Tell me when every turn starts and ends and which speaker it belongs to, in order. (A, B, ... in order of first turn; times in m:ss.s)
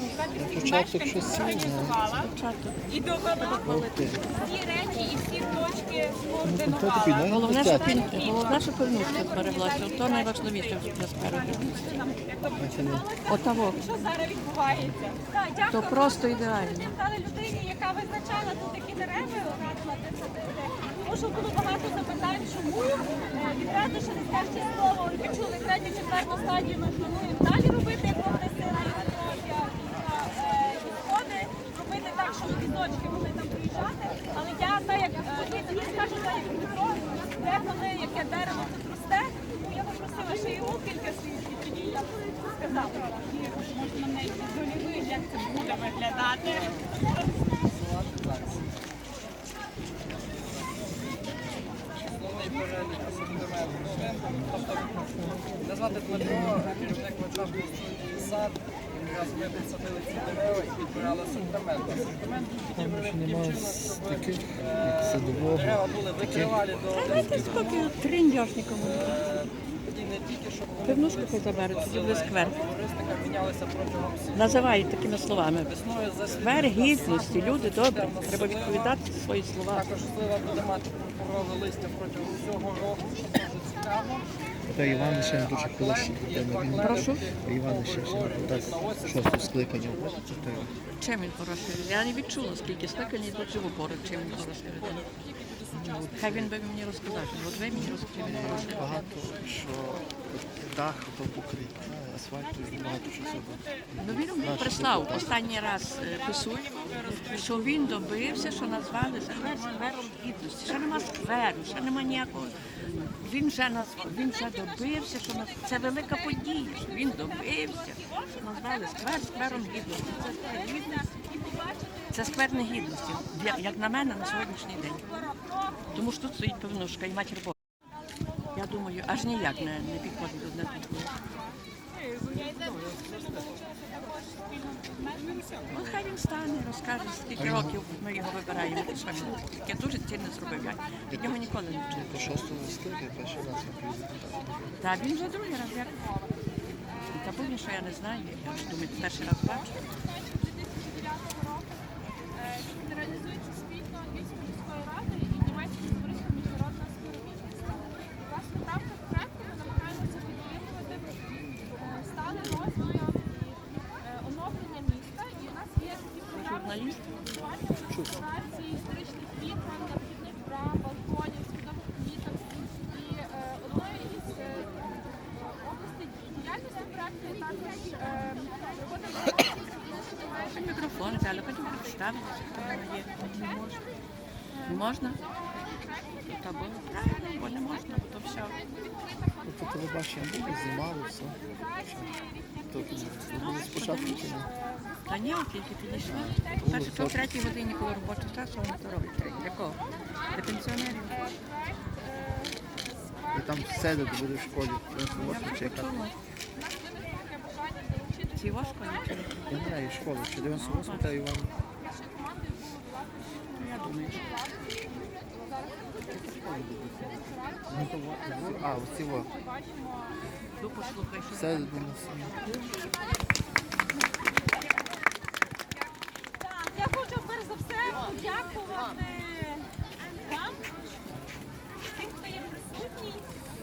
0:00.1-0:00.9 A
0:00.4-0:02.1 B
0:01.2-0:01.7 C
0:01.9-0:03.7 A
0:03.5-0:10.4 C
0:03.6-0:04.3 B
0:06.4-0:08.0 B
0:07.2-0:12.1 A
0:11.7-0:46.6 C
0:12.6-0:13.1 B
0:13.3-0:13.8 A
0:15.7-0:16.9 A
0:46.4-0:48.7 D
0:52.0-1:07.9 D
1:02.7-1:07.6 B
1:06.9-1:09.3 A
1:08.8-1:14.7 D
1:10.8-1:12.7 A
1:14.3-1:20.0 A
1:15.7-1:18.9 D
1:19.7-1:30.7 D
1:24.7-1:30.8 B
1:26.8-1:27.3 A
1:31.0-1:35.1 A
1:34.3-1:34.8 D
1:35.7-1:36.5 B
1:36.1-1:38.9 A
1:37.9-1:45.4 B
1:44.0-2:01.1 A
1:54.0-2:06.0 C
2:02.1-2:05.2 A
2:05.9-2:07.5 A
2:08.5-2:11.1 A
2:10.2-2:11.6 C
2:12.2-2:15.6 C
2:15.7-2:22.5 A
2:17.4-2:17.8 B
2:21.1-2:24.8 B
2:24.8-2:26.0 A
2:25.0-2:26.3 C
2:27.1-2:29.7 A
2:29.1-2:31.8 C
2:32.4-3:00.5 C
2:46.3-2:47.0 A
3:00.5-3:03.5 A
3:04.7-3:05.2 A
3:06.2-3:08.6 A
3:09.4-3:14.5 B
3:12.2-3:14.5 C
3:13.4-3:14.5 A
3:15.1-3:21.4 A
3:16.1-3:17.3 B
3:16.5-3:17.1 C
3:23.3-3:26.1 B
3:25.1-3:26.1 A
3:26.7-3:28.3 C
3:28.3-3:29.6 A
3:29.5-3:31.6 B
3:30.5-3:31.2 A
3:31.9-3:33.0 C
3:33.5-3:34.4 A
3:35.6-3:36.1 C
3:36.1-3:39.3 B
3:39.3-3:39.9 C
3:40.6-3:41.8 A
3:41.3-3:42.4 B
3:46.3-3:50.6 C
3:51.9-3:53.3 C